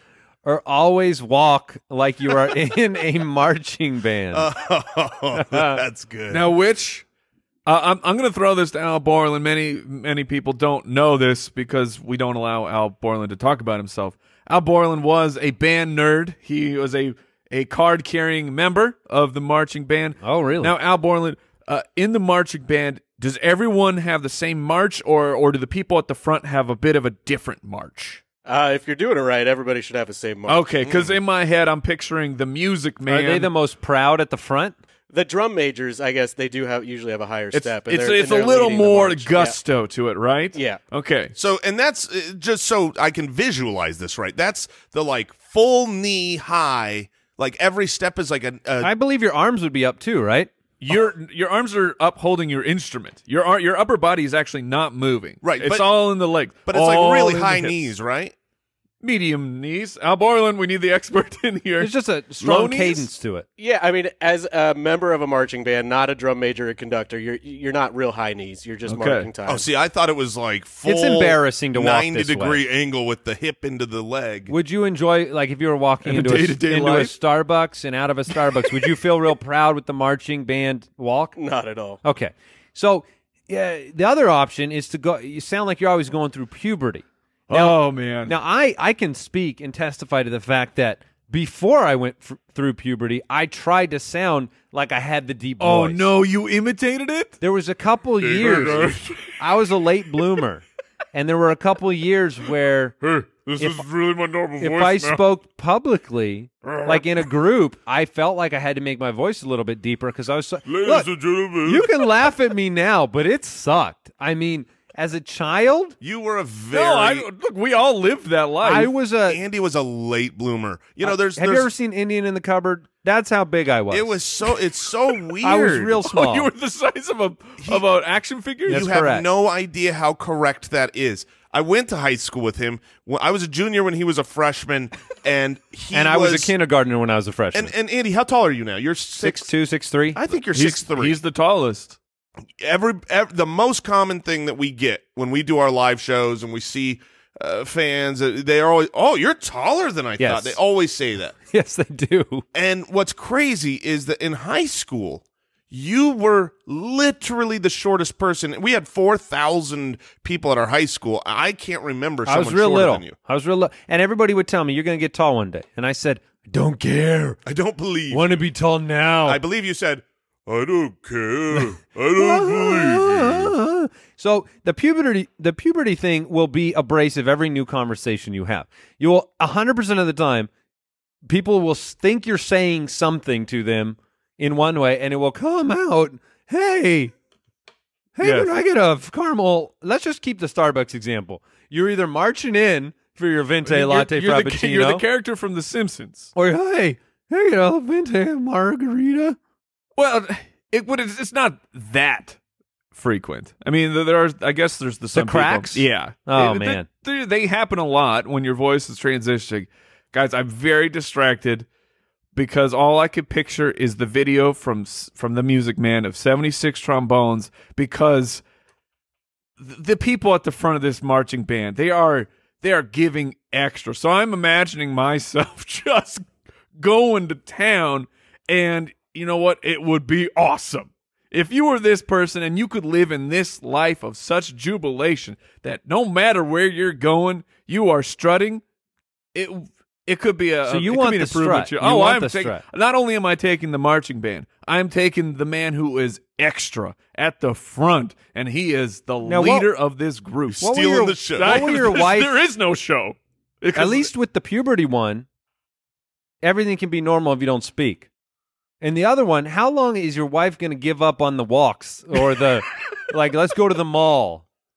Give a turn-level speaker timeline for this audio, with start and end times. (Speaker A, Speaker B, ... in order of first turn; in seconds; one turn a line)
Speaker A: 0.4-4.5
Speaker B: 4.3-6.4
Speaker A: 5.3-5.8
Speaker C: 6.3-7.0
Speaker C: 7.7-28.2
Speaker A: 20.2-20.7
Speaker D: 28.4-30.7
Speaker C: 30.5-33.5
Speaker B: 30.8-31.1
Speaker A: 33.0-34.7
Speaker D: 35.1-39.5
Speaker C: 37.5-41.3
Speaker D: 40.5-40.8
Speaker B: 41.3-48.9
Speaker A: 48.8-50.5
Speaker C: 50.8-57.9
Speaker B: 55.4-55.9
Speaker B: 56.7-58.3
Speaker C: 59.0-63.1
Speaker A: 61.8-63.5
Speaker D: 63.6-69.7
Speaker C: 68.8-69.3
Speaker B: 69.5-74.5
Speaker A: 70.8-72.6
Speaker A: 74.5-81.4
Speaker C: 76.0-77.1
Speaker D: 81.4-82.0
Speaker A: 82.0-96.1
Speaker C: 87.5-88.3
Speaker C: 95.6-97.4
Speaker A: 97.4-103.0
Speaker B: 98.2-99.2
Speaker C: 98.6-98.9
Speaker B: 103.0-104.9
Speaker A: 103.6-103.8
Speaker C: 103.6-105.1
Speaker A: 104.6-115.9
Speaker B: 110.7-111.9
Speaker B: 116.0-117.3
Speaker C: 116.7-118.9
Speaker A: 118.6-119.4
Speaker B: 119.3-121.7
Speaker A: 121.0-124.2
Speaker B: 123.9-126.0
Speaker A: 125.4-126.5
Speaker C: 126.0-128.9
Speaker B: 128.7-136.5
Speaker A: 128.7-129.3
Speaker A: 135.9-137.7
Speaker B: 137.5-139.5
Speaker A: 139.2-140.2
Speaker B: 140.1-141.2
Speaker C: 140.5-142.0
Speaker B: 142.6-151.3
Speaker A: 150.2-150.6
Speaker A: 151.5-152.4
Speaker B: 152.5-163.1
Speaker A: 162.2-167.4
Speaker B: 167.4-168.4
Speaker A: 168.1-169.4
Speaker B: 169.2-173.5
Speaker A: 171.5-180.5
Speaker A: 181.2-187.1
Speaker A: 188.2-195.0
Speaker C: 188.2-188.5
Speaker C: 193.7-196.3
Speaker A: 196.3-199.4
Speaker C: 200.0-202.4
Speaker C: 202.9-211.7
Speaker A: 205.1-206.9
Speaker C: 212.3-218.4
Speaker C: 219.6-226.2
Speaker C: 226.8-238.6
Speaker C: 239.3-250.7
Speaker A: 240.7-242.6
Speaker A: 249.2-249.7
Speaker B: 250.5-251.7
Speaker A: 250.6-252.3
Speaker C: 251.4-254.1
Speaker A: 253.7-255.2
Speaker A: 256.4-258.1
Speaker A: 258.8-264.4